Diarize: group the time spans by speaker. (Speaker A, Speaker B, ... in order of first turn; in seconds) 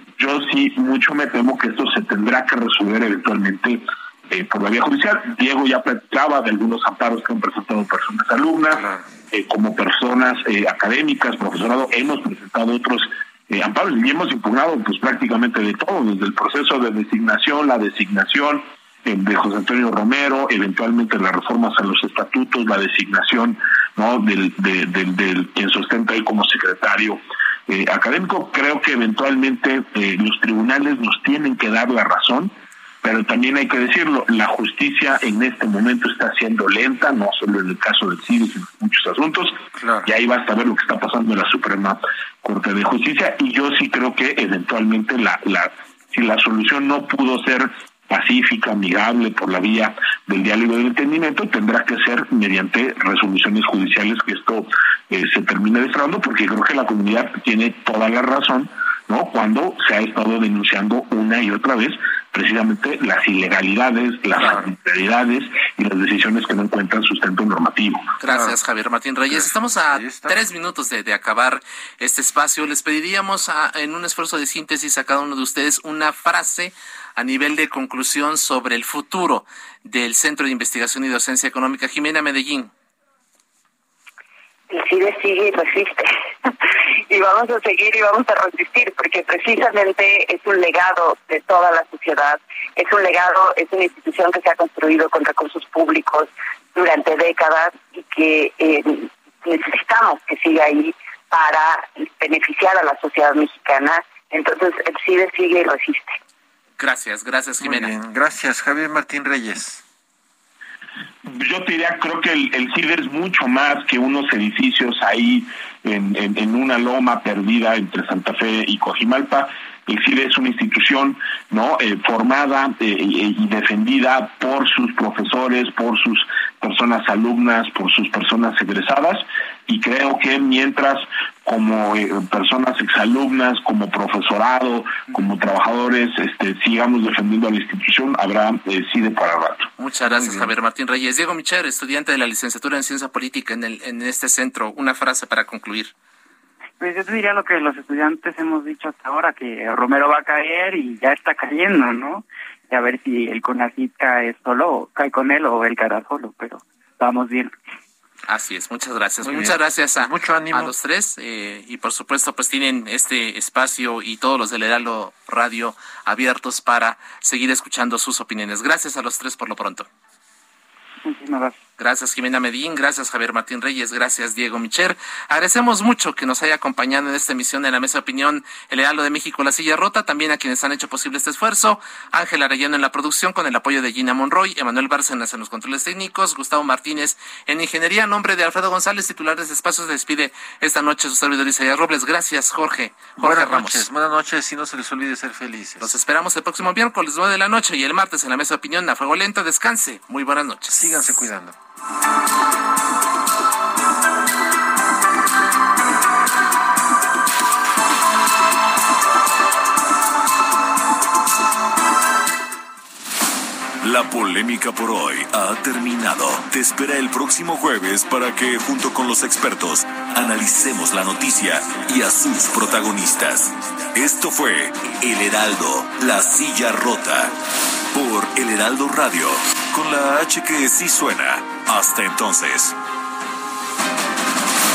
Speaker A: 0.2-68.2, 111.2-139.7
Speaker B: 39.7-40.1, 68.3-68.6, 69.3-70.4, 107.6-109.8, 140.0-140.5, 159.2-160.7, 193.2-196.0, 200.7-201.6
Speaker C: 68.2-82.7, 106.8-107.9, 139.8-145.9, 158.3-169.9, 171.8-193.9, 195.8-200.8
Speaker D: 84.7-106.2
Speaker E: 146.8-157.5, 171.0-171.6
Speaker F: 213.8-227.3, 227.9-232.8